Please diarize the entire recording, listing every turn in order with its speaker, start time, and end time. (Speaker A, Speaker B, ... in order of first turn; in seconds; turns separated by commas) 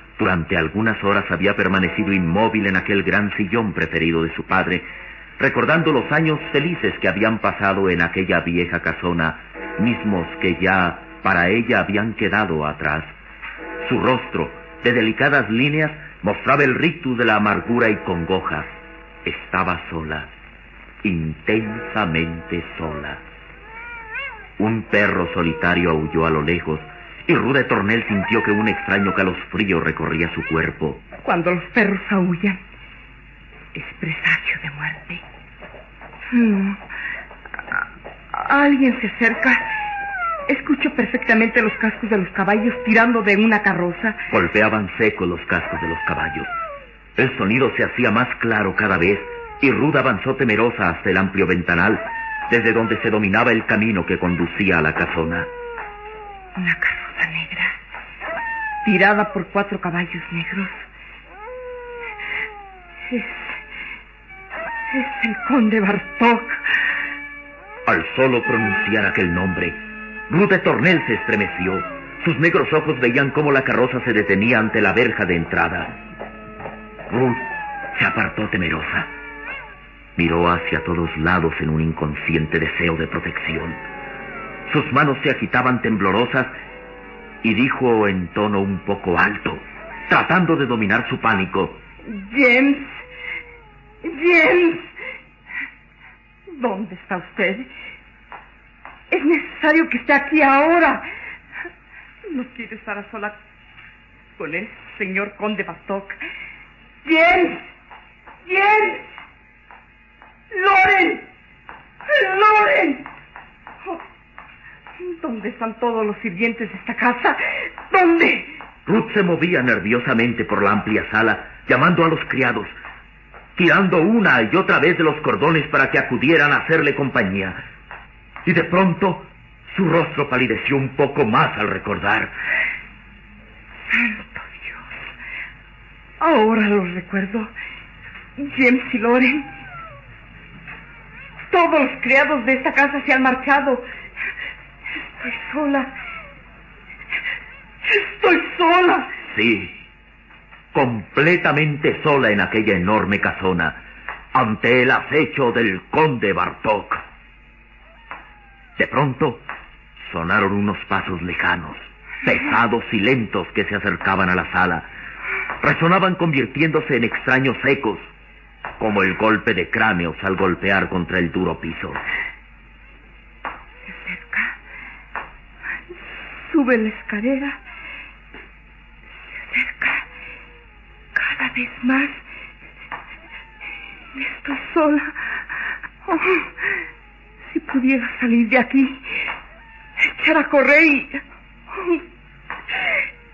Speaker A: 0.2-4.9, Speaker A: 5.4-13.2, Speaker A: 13.8-20.3, Speaker A: 21.0-23.2, Speaker A: 24.6-31.0, Speaker B: 31.2-32.6, Speaker B: 33.7-35.2, Speaker B: 36.3-36.8, Speaker B: 38.3-39.7, Speaker B: 40.5-44.2, Speaker A: 44.3-46.5, Speaker A: 47.2-55.5, Speaker B: 56.6-57.8, Speaker B: 58.8-60.8, Speaker B: 63.1-63.5, Speaker B: 64.9-66.6, Speaker A: 67.9-76.0, Speaker A: 77.1-79.1, Speaker A: 80.2-83.8, Speaker A: 84.7-86.5, Speaker A: 87.4-91.8, Speaker B: 92.0-93.0, Speaker B: 94.0-94.9, Speaker B: 96.5-97.7, Speaker B: 99.1-101.1, Speaker B: 102.3-103.4, Speaker B: 104.4-106.2, Speaker B: 107.0-107.6, Speaker B: 108.5-109.0, Speaker B: 110.5-111.3, Speaker B: 112.1-113.1, Speaker B: 115.0-118.5, Speaker A: 118.9-122.8, Speaker A: 123.6-127.6, Speaker A: 128.4-132.3, Speaker B: 133.9-134.9, Speaker B: 136.2-137.5, Speaker B: 138.4-139.5, Speaker B: 141.5-143.9, Speaker B: 145.0-145.9, Speaker B: 147.8-149.1, Speaker A: 149.3-149.7, Speaker A: 150.7-153.8, Speaker A: 154.3-157.0, Speaker A: 158.8-159.4, Speaker A: 160.0-164.9, Speaker A: 165.6-168.1, Speaker A: 168.8-172.0, Speaker B: 173.9-174.6, Speaker B: 176.4-177.6, Speaker B: 179.5-180.1, Speaker B: 181.2-182.2, Speaker B: 184.2-185.2, Speaker B: 186.1-186.6, Speaker B: 187.5-189.1, Speaker B: 190.0-192.0